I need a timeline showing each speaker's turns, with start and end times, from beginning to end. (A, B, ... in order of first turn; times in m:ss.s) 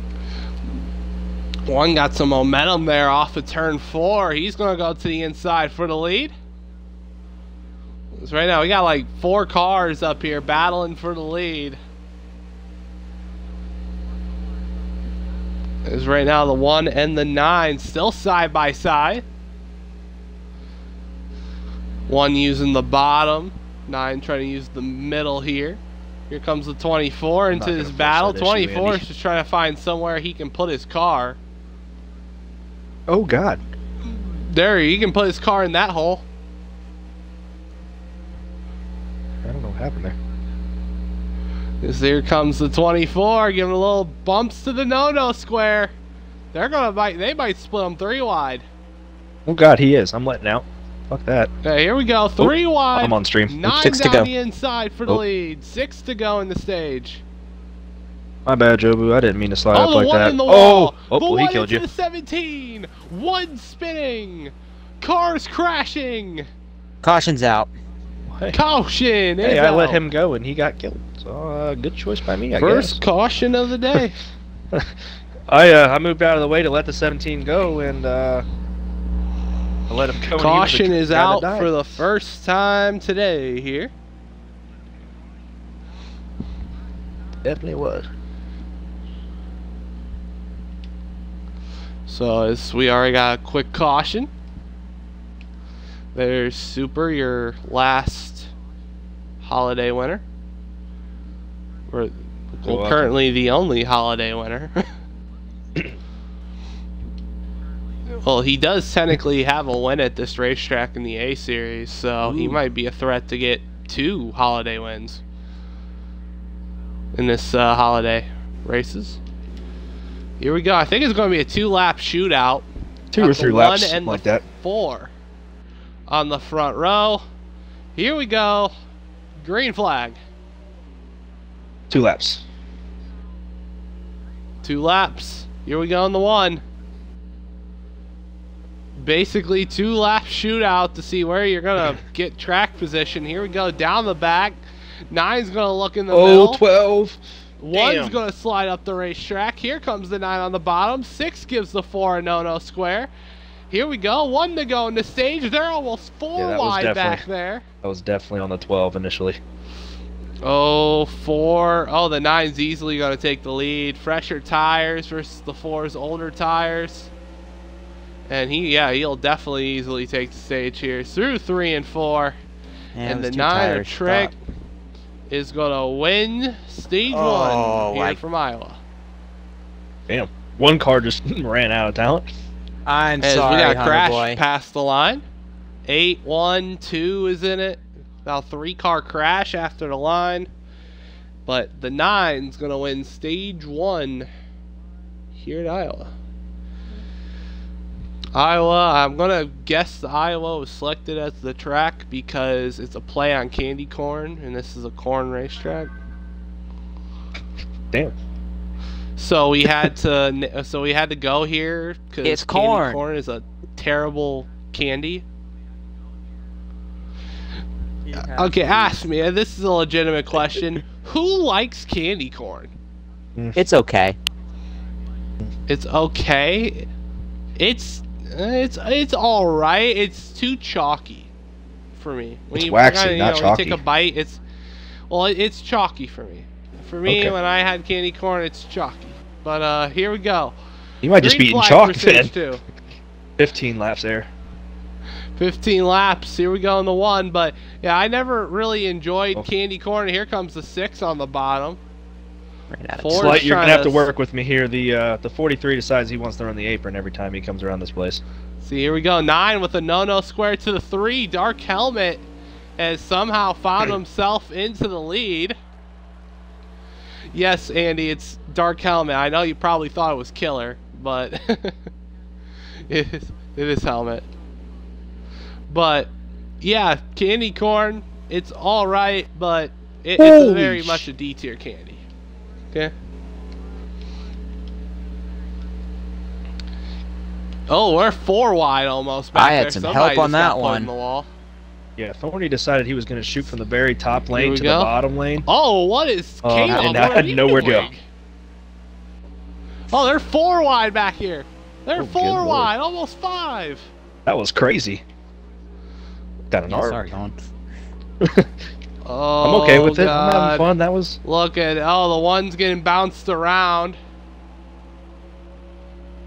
0:01.6-0:06.3 A
0:08.1-0:11.8 A
0:15.8-0:19.2 A
0:22.1-0:31.4 A
0:27.5-0:29.0 B
0:33.1-0:33.6 B
0:34.0-0:36.2 A
0:39.4-0:40.2 B
0:41.8-0:45.9 A
0:46.5-0:48.6 A
0:49.4-0:51.5 B
0:51.6-0:57.2 A
0:52.4-0:53.6 B
0:53.6-0:54.3 C
0:58.4-1:01.8 B
0:59.7-1:06.5 A
1:07.0-1:07.7 C
1:08.3-1:08.6 B
1:08.5-1:10.0 A
1:09.4-1:13.0 B
1:12.6-1:14.2 A
1:15.5-1:18.4 B
1:19.9-1:22.0 B
1:20.4-1:23.9 A
1:27.4-1:28.1 B
1:32.1-1:34.3 A
1:36.1-1:38.5 A
1:39.4-1:40.2 A
1:41.9-1:44.9 A
1:42.6-1:43.1 B
1:48.1-1:55.2 A
1:57.1-1:59.2 A
2:00.4-2:02.6 A
2:03.1-2:04.4 B
2:03.2-2:05.1 A
2:06.1-2:07.2 A
2:07.9-2:08.7 A
2:09.4-2:10.2 A
2:11.9-2:12.4 B
2:14.6-2:16.6 A
2:19.0-2:24.6 A
2:25.1-2:26.6 A
2:26.1-2:27.2 B
2:27.6-2:33.1 A
2:27.7-2:28.2 B
2:33.7-2:37.6 A
2:36.4-2:37.2 B
2:37.8-2:39.4 B
2:40.4-2:47.1 A
2:48.3-2:52.4 A
2:53.0-2:54.3 C
2:53.0-2:54.3 A
2:55.3-2:58.8 A
2:57.1-2:58.2 C
3:00.1-3:02.3 B
3:02.8-3:04.4 C
3:03.2-3:05.2 A
3:05.9-3:10.5 A
3:11.4-3:14.3 A
3:15.3-3:16.1 A
3:18.3-3:25.9 A
3:29.2-3:35.2 A
3:32.2-3:33.0 C
3:38.1-3:38.9 C
3:38.2-3:42.7 A
3:43.6-3:44.2 C
3:45.7-3:46.9 A
3:47.6-3:51.3 A
3:52.0-3:54.4 A
3:52.5-3:53.8 B
3:55.1-4:00.5 A
3:57.1-3:57.3 B
4:01.0-4:02.3 B
4:01.1-4:02.6 A
4:03.4-4:04.3 B
4:05.4-4:11.8 A
4:12.7-4:13.4 C
4:13.0-4:14.0 A
4:13.1-4:18.2 B
4:18.6-4:22.2 A
4:22.8-4:25.6 A
4:27.3-4:31.8 A
4:32.8-4:34.3 A
4:35.7-4:36.1 A
4:36.6-4:42.0 A
4:40.2-4:40.7 B
4:47.7-4:51.3 A
4:49.3-4:50.9 C
4:52.0-4:55.4 B
4:54.2-4:54.9 A
4:55.5-4:58.0 A
4:56.4-4:57.9 B
4:56.7-4:57.4 C
4:59.9-5:03.9 A
5:02.0-5:02.7 B
5:04.2-5:05.0 B
5:06.5-5:07.0 B
5:06.7-5:07.3 C
5:08.2-5:08.5 B
5:09.0-5:10.7 A
5:09.4-5:11.2 B
5:11.2-5:14.0 A